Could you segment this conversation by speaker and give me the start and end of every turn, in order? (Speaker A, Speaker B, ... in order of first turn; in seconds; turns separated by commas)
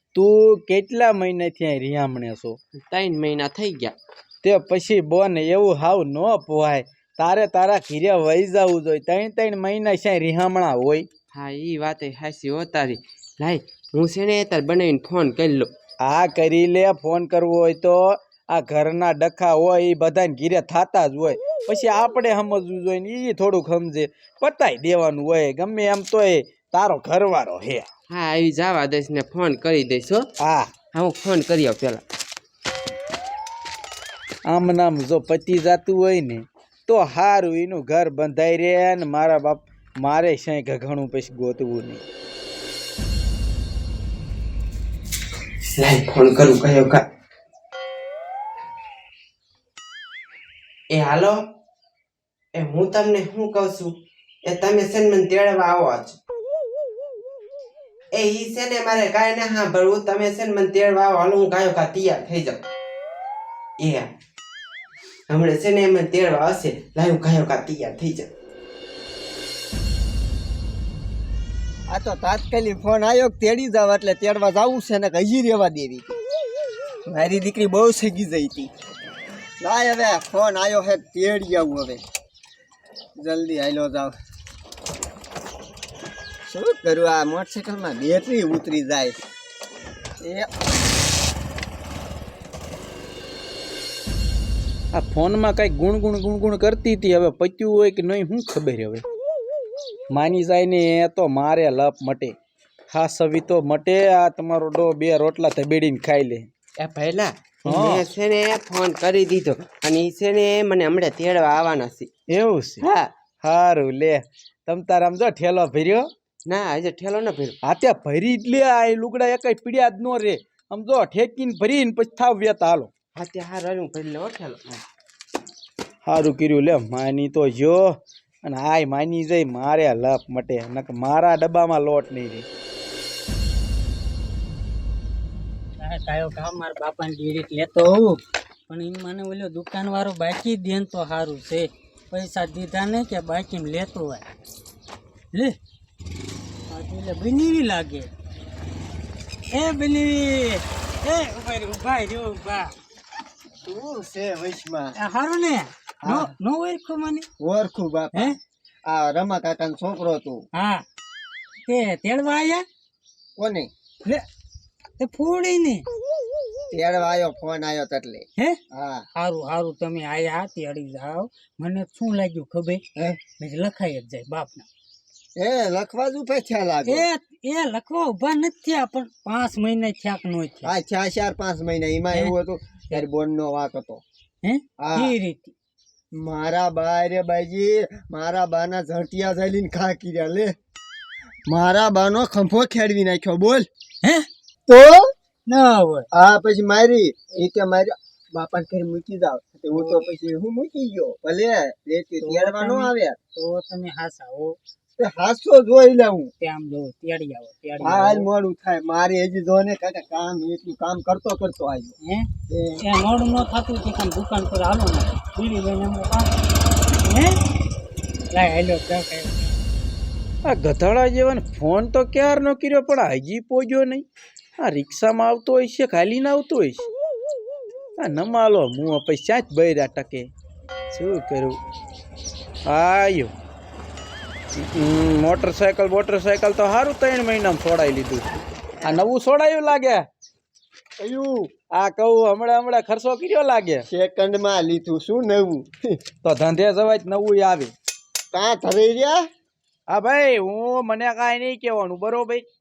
Speaker A: 0.1-2.6, Speaker B: 2.9-4.0, Speaker A: 4.4-11.1, Speaker B: 11.3-15.7, Speaker A: 16.0-27.9, Speaker B: 28.1-30.3, Speaker A: 30.4-30.7, Speaker B: 30.9-32.0, Speaker A: 34.4-42.0, Speaker B: 45.7-47.0, Speaker B: 50.9-51.4, Speaker B: 52.5-56.2, Speaker B: 58.1-62.6, Speaker B: 63.8-64.1, Speaker B: 65.3-68.3, Speaker C: 71.9-76.1, Speaker C: 77.0-78.7, Speaker C: 79.6-82.0, Speaker C: 83.2-84.1, Speaker C: 86.5-89.2, Speaker C: 90.2-90.5, Speaker A: 94.9-99.0, Speaker A: 100.1-102.3, Speaker A: 102.9-106.5, Speaker B: 106.8-112.1, Speaker A: 107.6-108.0, Speaker A: 112.3-112.8, Speaker B: 112.8-113.1, Speaker A: 113.4-116.1, Speaker B: 116.5-117.6, Speaker A: 117.6-122.9, Speaker B: 123.2-124.8, Speaker A: 126.0-132.5, Speaker D: 135.8-144.2, Speaker D: 146.7-148.1, Speaker D: 149.5-152.7, Speaker C: 153.6-154.9, Speaker D: 155.0-157.2, Speaker C: 156.0-156.3, Speaker C: 157.4-158.3, Speaker C: 158.8-160.4, Speaker D: 160.5-160.8, Speaker D: 161.7-162.6, Speaker C: 163.3-163.7, Speaker D: 165.0-165.9, Speaker C: 166.7-169.1, Speaker D: 169.2-174.7, Speaker C: 172.9-173.2, Speaker C: 175.4-177.1, Speaker D: 176.8-180.7, Speaker C: 180.6-184.0, Speaker D: 184.4-185.5, Speaker C: 184.8-185.1, Speaker C: 186.1-190.5, Speaker C: 191.5-193.7, Speaker D: 194.0-194.3, Speaker C: 194.7-195.1, Speaker D: 195.4-196.1, Speaker C: 196.1-203.2, Speaker D: 199.7-200.0, Speaker D: 202.2-204.6, Speaker C: 205.0-206.3, Speaker D: 206.4-208.2, Speaker C: 207.8-212.0, Speaker D: 212.0-212.3, Speaker C: 212.5-212.8, Speaker D: 212.8-216.3, Speaker D: 216.9-217.4, Speaker D: 218.3-219.5, Speaker A: 220.4-224.1, Speaker A: 224.6-226.9, Speaker A: 228.0-230.3, Speaker A: 230.9-231.6, Speaker A: 232.7-233.3, Speaker A: 234.6-238.3, Speaker A: 238.8-240.1, Speaker C: 241.0-241.5, Speaker A: 241.7-243.8, Speaker C: 243.9-246.0, Speaker A: 246.2-247.7, Speaker C: 248.3-249.2, Speaker A: 249.9-252.4